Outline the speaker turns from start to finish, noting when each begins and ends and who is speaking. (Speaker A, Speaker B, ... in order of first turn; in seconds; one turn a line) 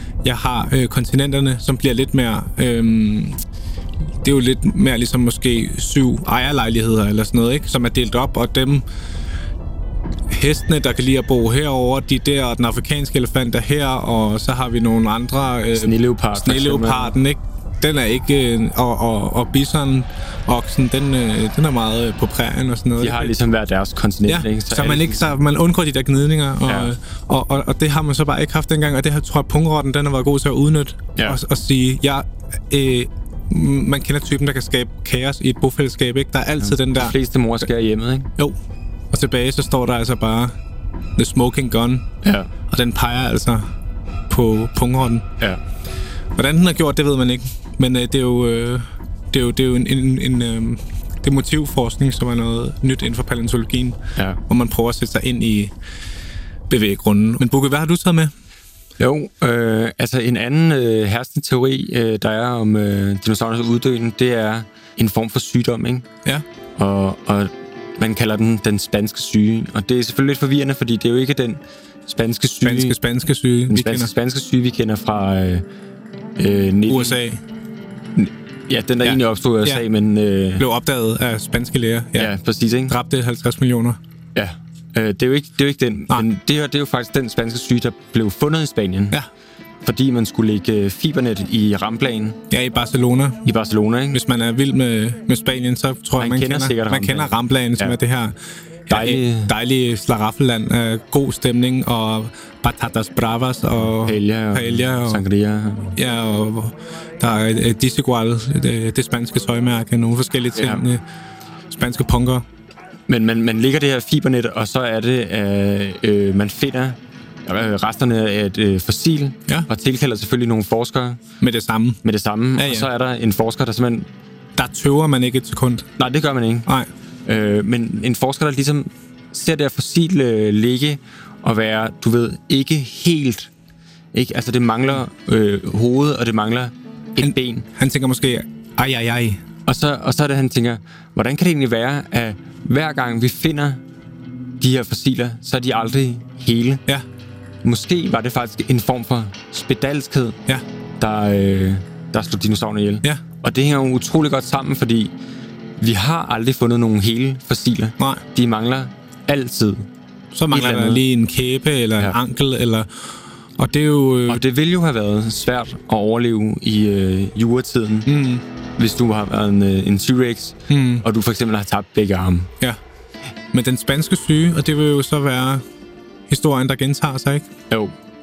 Speaker A: 0.2-3.4
Speaker A: 4.2-8.8
Speaker A: 10.3-23.3
Speaker B: 15.8-17.1
Speaker B: 23.0-25.2
Speaker A: 24.2-37.1
Speaker B: 26.6-26.9
Speaker B: 36.6-38.3
Speaker A: 39.1-40.5
Speaker A: 41.2-42.1
Speaker B: 42.2-42.5
Speaker A: 42.7-43.7
Speaker A: 44.3-45.3
Speaker A: 46.4-55.7
Speaker A: 56.7-58.3
Speaker B: 59.0-66.1
Speaker B: 66.8-73.0
Speaker A: 72.6-74.1
Speaker B: 73.7-75.6
Speaker B: 76.4-77.2
Speaker A: 76.9-77.4
Speaker B: 78.1-80.7
Speaker A: 79.0-79.8
Speaker A: 80.6-82.3
Speaker B: 82.2-83.0
Speaker A: 82.9-84.0
Speaker B: 84.3-89.2
Speaker B: 89.8-92.4
Speaker A: 92.5-93.4
Speaker B: 93.4-94.2
Speaker A: 94.1-98.3
Speaker B: 96.2-98.0
Speaker A: 98.9-105.2
Speaker B: 98.9-99.5
Speaker B: 104.0-106.0
Speaker A: 106.0-111.0
Speaker B: 110.5-110.8
Speaker A: 111.7-112.4
Speaker B: 113.1-121.2
Speaker A: 121.4-122.0
Speaker B: 122.0-124.1
Speaker A: 122.5-122.9
Speaker A: 124.6-125.9
Speaker B: 126.0-126.7
Speaker B: 127.2-133.5
Speaker B: 134.1-137.7
Speaker A: 137.2-139.4
Speaker B: 139.7-143.8
Speaker B: 144.6-146.8
Speaker B: 147.6-150.4
Speaker B: 151.0-155.1
Speaker B: 155.8-159.9
Speaker A: 158.0-158.2
Speaker A: 160.3-162.9
Speaker B: 160.5-161.0
Speaker A: 163.6-164.4
Speaker B: 164.3-168.1
Speaker A: 168.1-168.4
Speaker B: 168.8-172.5
Speaker A: 170.7-171.0
Speaker A: 173.5-175.6
Speaker A: 176.3-177.5
Speaker B: 177.7-177.9